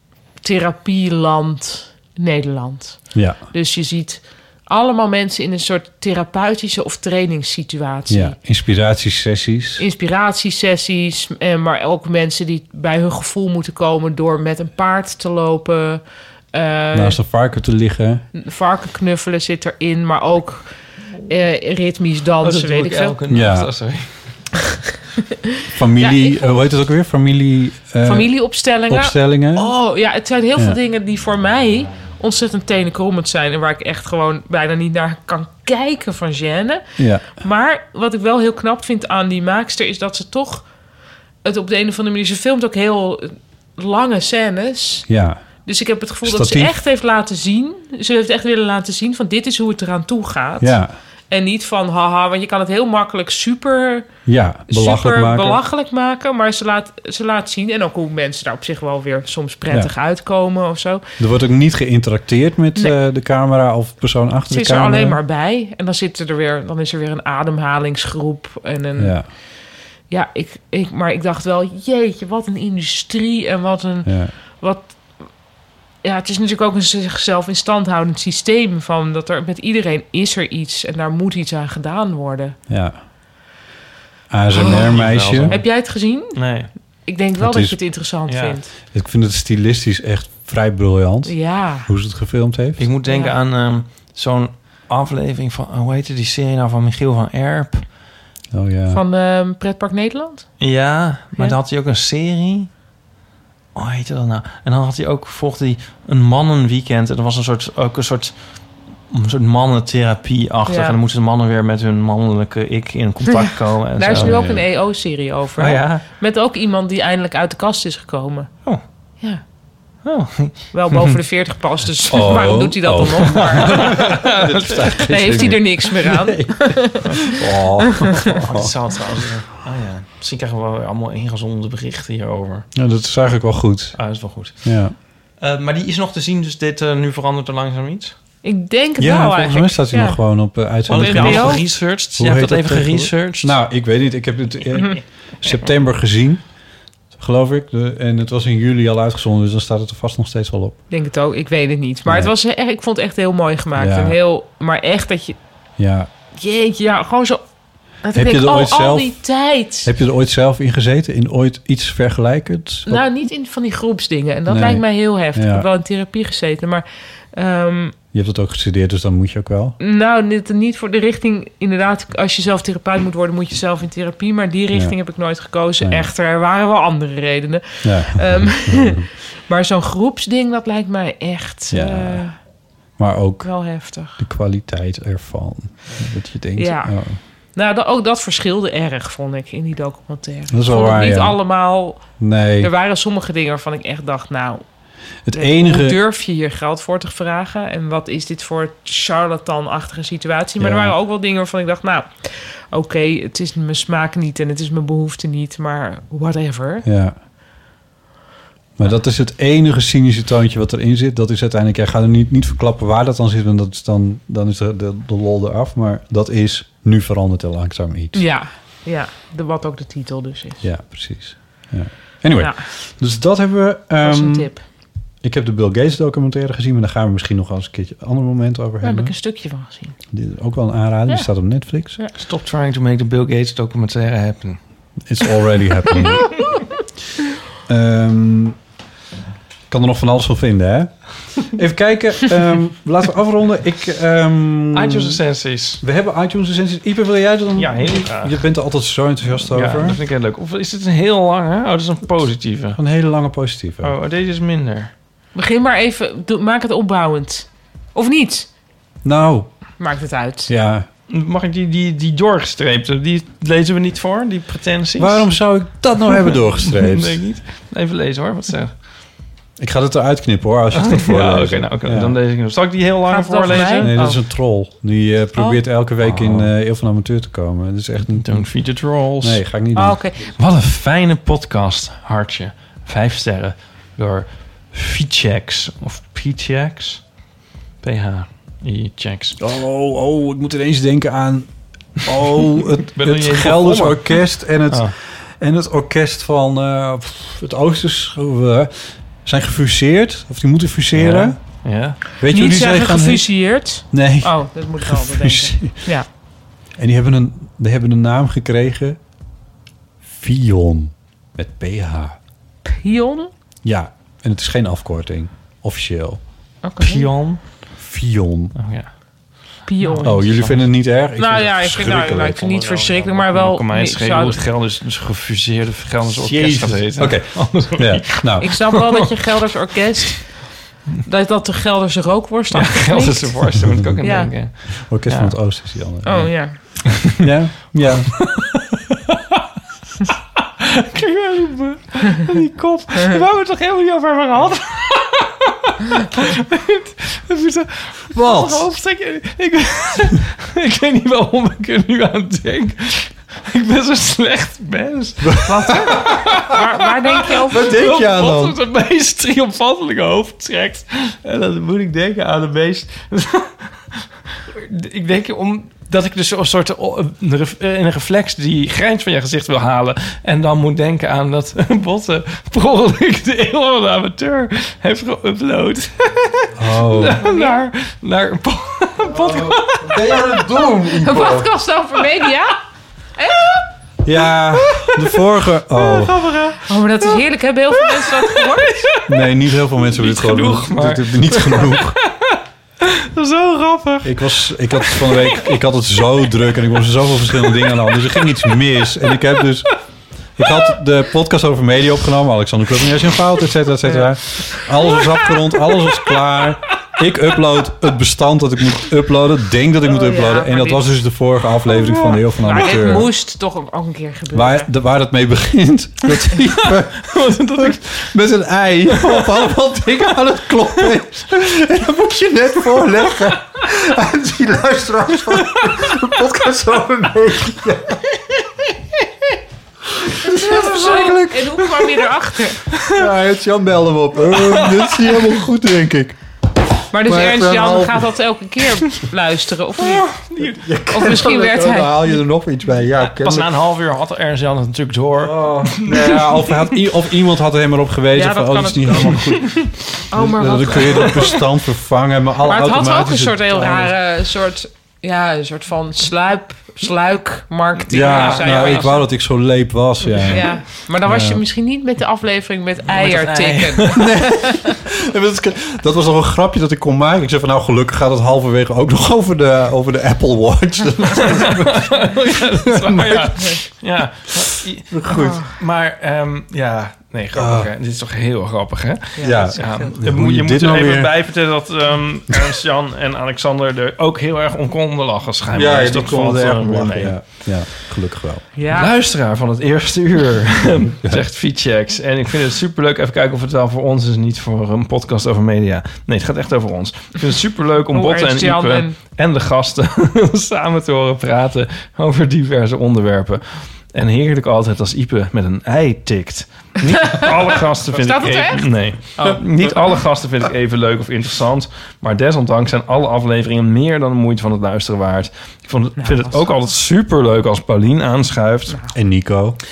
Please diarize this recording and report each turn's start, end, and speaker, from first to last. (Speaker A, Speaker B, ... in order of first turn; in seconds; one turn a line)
Speaker A: 0.4-8.4
Speaker B: 3.1-3.4
Speaker B: 8.1-9.8
Speaker A: 9.8-16.0
Speaker A: 16.5-17.2
Speaker B: 16.9-18.2
Speaker A: 18.3-20.7
Speaker A: 21.3-23.1
Speaker C: 22.4-24.1
Speaker B: 23.3-23.7
Speaker B: 25.7-29.7
Speaker A: 26.0-26.5
Speaker A: 28.0-40.7
Speaker B: 37.0-37.3
Speaker A: 41.4-45.1
Speaker B: 45.1-45.4
Speaker A: 45.6-54.1
Speaker B: 46.2-46.7
Speaker B: 50.6-50.9
Speaker B: 54.2-55.6
Speaker A: 54.7-61.0
Speaker B: 61.2-65.2
Speaker A: 64.5-69.4
Speaker B: 69.0-69.2
Speaker A: 70.1-75.3
Speaker B: 74.0-74.3
Speaker A: 76.0-82.5
Speaker B: 82.7-83.0
Speaker B: 84.3-85.6
Speaker C: 84.6-86.7
Speaker A: 85.5-86.5
Speaker A: 87.0-88.7
Speaker B: 87.4-87.9
Speaker C: 88.3-88.6
Speaker B: 88.9-92.8
Speaker A: 91.2-91.9
Speaker C: 92.8-97.8
Speaker A: 93.1-93.3
Speaker B: 98.5-99.0
Speaker A: 98.9-100.5
Speaker C: 100.6-102.7
Speaker C: 103.7-114.5
Speaker A: 110.7-111.0
Speaker A: 113.9-118.5
Speaker B: 114.1-114.6
Speaker C: 115.6-116.0
Speaker C: 120.0-121.1
Speaker A: 120.7-124.0
Speaker B: 122.1-128.7
Speaker C: 123.7-125.5
Speaker A: 125.1-127.3
Speaker C: 128.2-132.7
Speaker B: 132.7-134.0
Speaker C: 133.9-134.8
Speaker B: 134.6-134.9
Speaker C: 135.4-138.1
Speaker A: 138.4-140.2
Speaker B: 139.0-146.4
Speaker C: 140.9-143.6
Speaker A: 140.9-141.6
Speaker B: 147.1-150.8
Speaker A: 150.9-155.4
Speaker B: 152.1-152.3
Speaker B: 153.8-154.2
Speaker B: 155.8-156.1
Speaker A: 156.3-157.4
Speaker A: 158.0-159.9
Speaker B: 158.1-159.2
Speaker B: 159.8-163.0
Speaker A: 162.8-167.9
Speaker B: 164.5-165.7
Speaker B: 168.1-169.8
Speaker A: 169.8-182.3
Speaker B: 175.8-176.1
Speaker B: 177.8-179.1
Speaker B: 181.7-182.2
Speaker B: 183.0-187.2
Speaker A: 183.4-184.2
Speaker A: 186.6-186.9
Speaker A: 187.5-192.1
Speaker B: 190.5-191.4
Speaker B: 192.2-192.7
Speaker A: 192.6-194.6
Speaker B: 195.2-196.0
Speaker A: 195.3-206.8
Speaker B: 200.6-200.9
Speaker B: 206.8-207.2
Speaker B: 208.8-218.2
Speaker A: 218.1-220.6
Speaker B: 220.6-224.5
Speaker A: 224.0-224.6
Speaker B: 225.2-229.2
Speaker A: 228.8-230.0
Speaker B: 230.1-232.0
Speaker C: 232.2-234.6
Speaker B: 235.1-236.4
Speaker A: 236.0-236.6
Speaker B: 237.7-238.6
Speaker B: 239.7-245.2
Speaker C: 244.7-245.8
Speaker B: 245.8-250.0
Speaker C: 247.6-248.4
Speaker C: 249.5-252.8
Speaker B: 252.8-253.9
Speaker C: 253.8-254.9
Speaker A: 255.3-258.5
Speaker B: 259.0-259.9
Speaker A: 259.8-260.5
Speaker B: 260.5-260.9
Speaker C: 261.1-265.4
Speaker B: 265.0-267.2
Speaker C: 266.2-268.7
Speaker B: 269.6-272.2
Speaker C: 270.7-274.0
Speaker A: 273.1-274.2
Speaker B: 273.5-278.6
Speaker A: 275.4-275.6
Speaker C: 276.0-276.5
Speaker C: 278.1-279.4
Speaker B: 279.2-280.1
Speaker A: 279.8-280.3
Speaker C: 280.3-287.1
Speaker C: 287.8-289.4
Speaker B: 289.4-301.4
Speaker C: 292.9-294.9
Speaker C: 300.9-302.0
Speaker B: 302.2-305.9
Speaker A: 302.3-306.1
Speaker B: 306.8-309.0
Speaker B: 310.0-312.1
Speaker A: 312.6-313.3
Speaker B: 313.6-316.2
Speaker A: 316.6-317.0
Speaker C: 316.8-317.4
Speaker B: 317.8-318.5
Speaker C: 318.6-318.9
Speaker A: 319.6-320.1
Speaker C: 319.8-320.7
Speaker B: 320.0-322.5
Speaker A: 321.2-324.4
Speaker C: 322.4-329.2
Speaker B: 326.1-328.5
Speaker A: 328.4-330.4
Speaker A: 331.0-333.4
Speaker C: 332.5-335.4
Speaker B: 333.7-334.0
Speaker A: 334.0-334.3
Speaker B: 334.7-338.3
Speaker A: 336.0-336.6
Speaker C: 338.3-339.4
Speaker C: 340.6-356.6
Speaker B: 348.1-348.6
Speaker B: 355.2-356.2
Speaker A: 355.4-357.7
Speaker C: 357.2-380.3
Speaker B: 357.4-358.6
Speaker B: 376.6-377.2
Speaker A: 377.2-377.6
Speaker B: 379.0-381.5
Speaker A: 381.0-382.6
Speaker A: 383.2-383.5
Speaker B: 384.0-386.2
Speaker C: 384.5-387.2
Speaker A: 386.6-388.9
Speaker C: 387.8-395.4
Speaker B: 389.1-392.0
Speaker B: 394.0-399.8
Speaker C: 397.4-398.6
Speaker C: 399.1-399.5
Speaker B: 400.4-413.1
Speaker A: 409.9-411.0
Speaker C: 411.8-412.9
Speaker A: 412.4-414.7
Speaker B: 414.3-428.0
Speaker C: 416.6-418.1
Speaker C: 418.9-419.5
Speaker C: 420.6-421.0
Speaker C: 422.7-423.3
Speaker C: 425.2-426.1
Speaker B: 429.9-431.6
Speaker A: 430.2-432.6
Speaker C: 432.7-433.0
Speaker B: 432.8-436.2
Speaker C: 434.3-435.2
Speaker A: 436.9-440.1
Speaker B: 437.0-438.1
Speaker C: 439.8-440.6
Speaker B: 440.4-443.5
Speaker A: 440.9-442.1
Speaker C: 443.0-446.8
Speaker B: 445.1-453.9
Speaker A: 448.1-449.6
Speaker A: 450.1-451.3
Speaker C: 451.1-451.4
Speaker A: 452.4-459.1
Speaker B: 457.9-461.4
Speaker C: 457.9-458.9
Speaker A: 460.3-464.7
Speaker C: 462.9-464.1
Speaker B: 463.9-473.4
Speaker C: 471.1-487.4
Speaker B: 474.9-475.4
Speaker A: 475.1-475.5
Speaker B: 477.3-477.7
Speaker A: 479.1-479.9
Speaker B: 479.2-481.1
Speaker B: 485.5-488.4
Speaker A: 488.6-488.9
Speaker C: 488.7-518.8
Speaker A: 497.9-499.0
Speaker A: 507.9-509.4
Speaker A: 516.0-516.5
Speaker B: 518.9-519.6